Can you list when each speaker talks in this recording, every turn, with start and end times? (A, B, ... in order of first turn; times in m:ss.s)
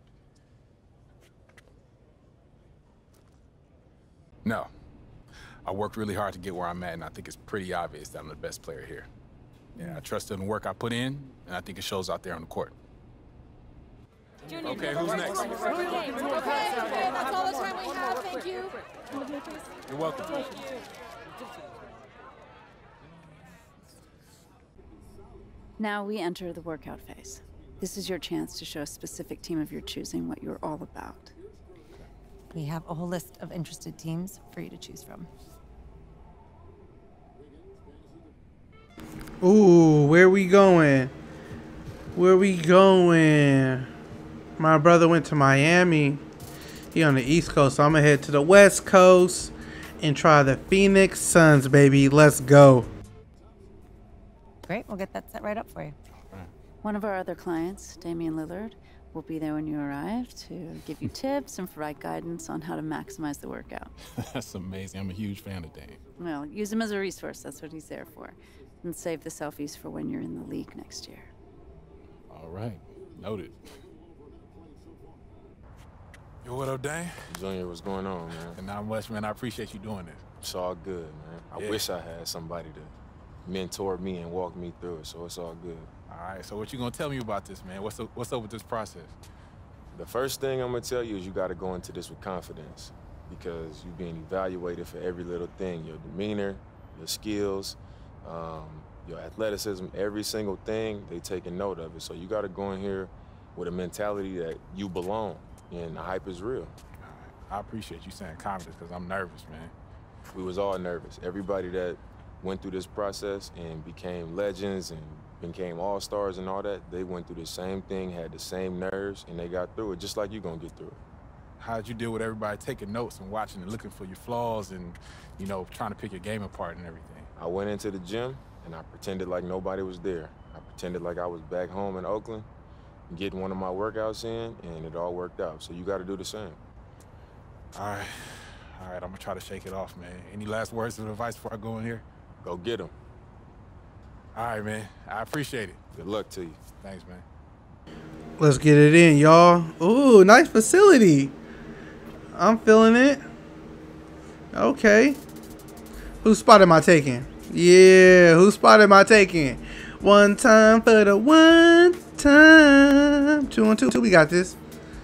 0:04.4-0:04.7 A
0:05.6-0:09.1 A
0:09.8-0:12.7 A
0:14.6-0:16.3 A
0:16.2-0:18.8 B
0:19.9-0:20.6 A
0:25.8-0:31.3 C
0:32.5-0:35.3 D
0:39.4-0:41.1 E
0:42.2-0:43.9 E
0:44.6-0:46.2 E
0:46.9-0:52.9 E
0:54.6-0:56.0 D
0:56.8-1:03.9 C
1:04.2-1:06.0 A
1:06.2-1:11.3 C
1:12.3-1:13.6 A
1:16.4-1:17.3 A
1:17.3-1:18.6 F
1:18.5-1:20.2 A
1:20.4-1:22.9 F
1:21.6-1:21.9 A
1:23.4-1:25.9 F
1:26.1-1:29.2 A
1:29.9-1:46.7 F
1:47.0-1:49.7 A
1:50.3-2:01.0 F
2:01.6-2:07.3 A
2:07.4-2:12.5 F
2:13.1-2:16.6 F
2:17.7-2:22.0 A
2:22.4-2:22.9 F
2:24.4-2:25.8 A
2:25.9-2:26.6 F
2:26.8-2:27.2 A
2:28.4-2:31.4 E
2:32.4-2:33.2 E
2:34.5-2:35.2 E
2:36.2-2:44.6 E